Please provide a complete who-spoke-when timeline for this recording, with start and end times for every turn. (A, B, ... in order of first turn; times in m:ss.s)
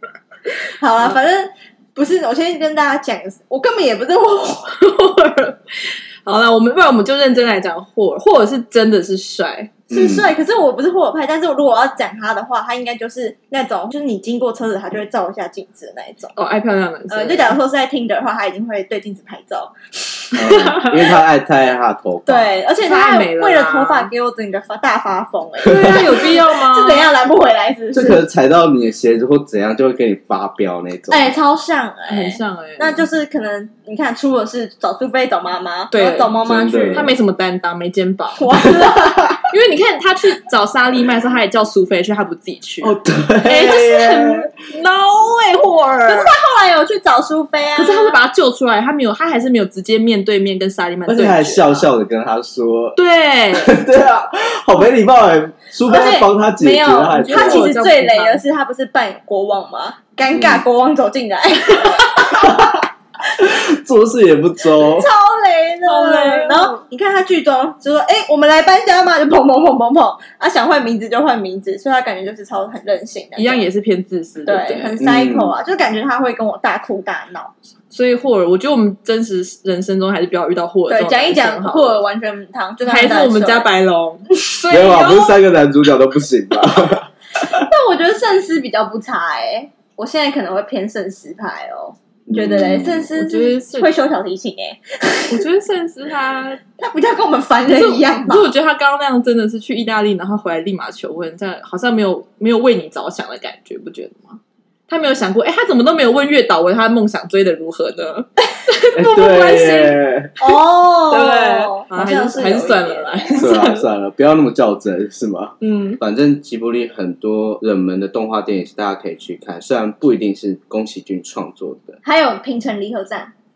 0:00.5-0:04.8 A
0:04.8-0:09.7 B
0:09.9-0:10.3 C
0:09.9-0:16.4 A
0:16.4-0:17.6 B
0:17.1-0:20.6 A
0:20.4-0:22.6 C
0:20.5-0:20.9 B
0:22.3-0:28.2 A
0:22.8-0:24.1 B
0:25.6-0:27.1 B
0:25.7-0:26.0 C
0:27.9-0:31.4 C
0:31.1-0:37.1 A
0:32.1-0:33.0 B
0:35.9-0:38.7 B
0:36.4-0:37.1 C
0:38.4-0:39.4 A
0:39.4-0:46.3 B
0:42.8-0:44.5 C
0:46.1-0:48.2 A
0:47.8-0:51.9 B
0:51.1-0:53.0 C
0:53.0-0:53.8 B
0:53.5-0:57.7 C
0:55.9-1:02.8 A
0:55.9-0:56.2 B
0:57.2-0:58.4 B
1:00.4-1:00.6 C
1:02.4-1:05.1 C
1:04.8-1:13.7 A
1:05.9-1:06.8 B
1:13.4-1:14.9 B
1:14.5-1:17.5 A
1:15.0-1:15.5 C
1:17.9-1:22.0 B
1:20.9-1:23.7 A
1:22.8-1:25.4 B
1:24.7-1:27.7 C
1:27.5-1:35.4 A
1:32.3-1:33.1 C
1:33.2-1:33.9 B
1:35.3-1:36.6 B
1:36.8-1:38.5 A
1:37.7-1:50.0 B
1:48.9-1:50.3 C
1:50.4-1:53.3 A
1:51.1-1:53.9 B
1:53.3-2:02.0 C
1:55.6-1:56.0 B
2:02.0-2:03.3 A